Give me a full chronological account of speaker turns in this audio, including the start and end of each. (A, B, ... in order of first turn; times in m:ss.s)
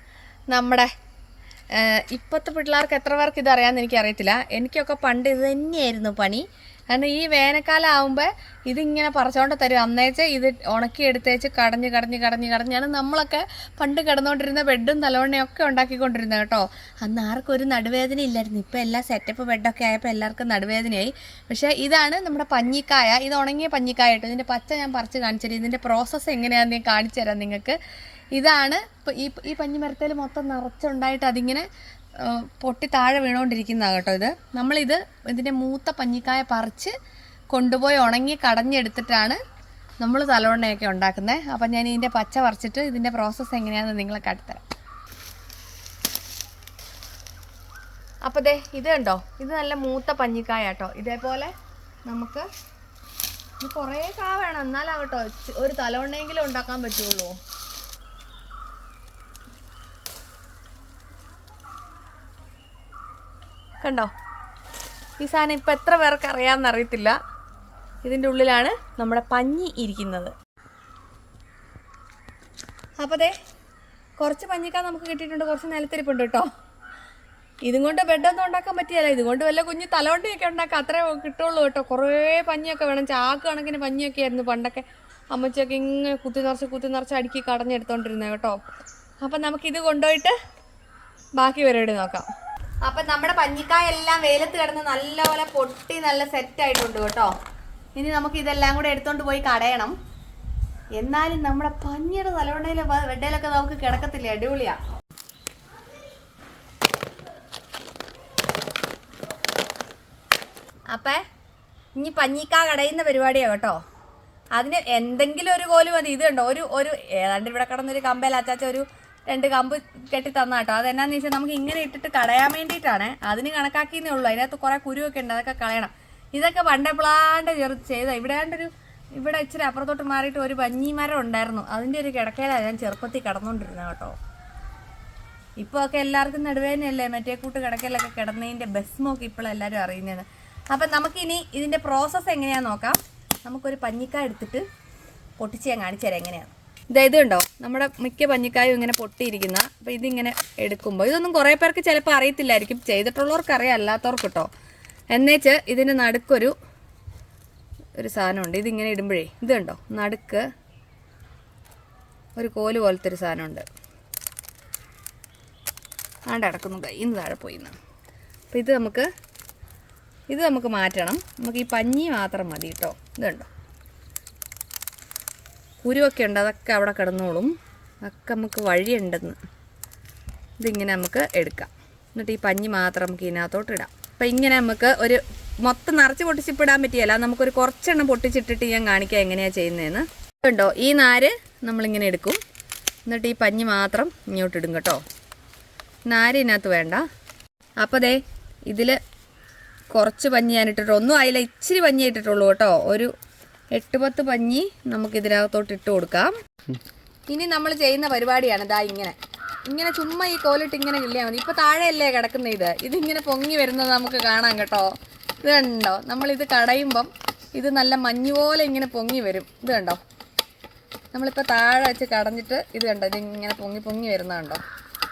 0:00.5-0:00.9 A
0:01.7-0:27.8 A
0:28.3-0:36.9 A
0:37.5-0:39.4 A
0:40.0-0:44.6 A
0:48.2-0:51.5 A
0:52.0-0:52.5 A
0:53.6-0:57.4 A
1:03.8-1:04.1 A
1:05.2-1:07.2 A
1:08.0-1:10.3 A
1:13.0-1:13.3 A
1:14.2-1:16.5 A
1:17.6-1:28.6 A
1:29.2-1:30.4 A
1:31.4-1:32.2 A
1:32.8-1:37.3 A
1:37.9-1:40.0 A
1:41.0-1:44.8 A
1:50.9-1:51.2 A
1:52.0-1:53.8 A
1:54.6-2:14.2 A
2:15.6-2:24.6 A
2:25.4-2:34.5 A
2:35.1-2:36.5 A
2:38.0-2:40.5 A
2:42.4-2:43.6 A
2:46.3-2:47.7 A
2:48.5-2:49.1 A
2:50.3-2:53.5 A
2:55.8-2:59.4 A
3:00.6-3:12.4 A
3:13.1-3:15.0 A
3:16.1-3:17.0 A
3:17.8-3:19.0 A
3:19.9-3:23.1 A
3:23.7-3:26.4 A
3:27.3-3:29.2 A
3:29.7-3:34.9 A
3:35.4-3:40.0 A
3:41.1-3:44.6 A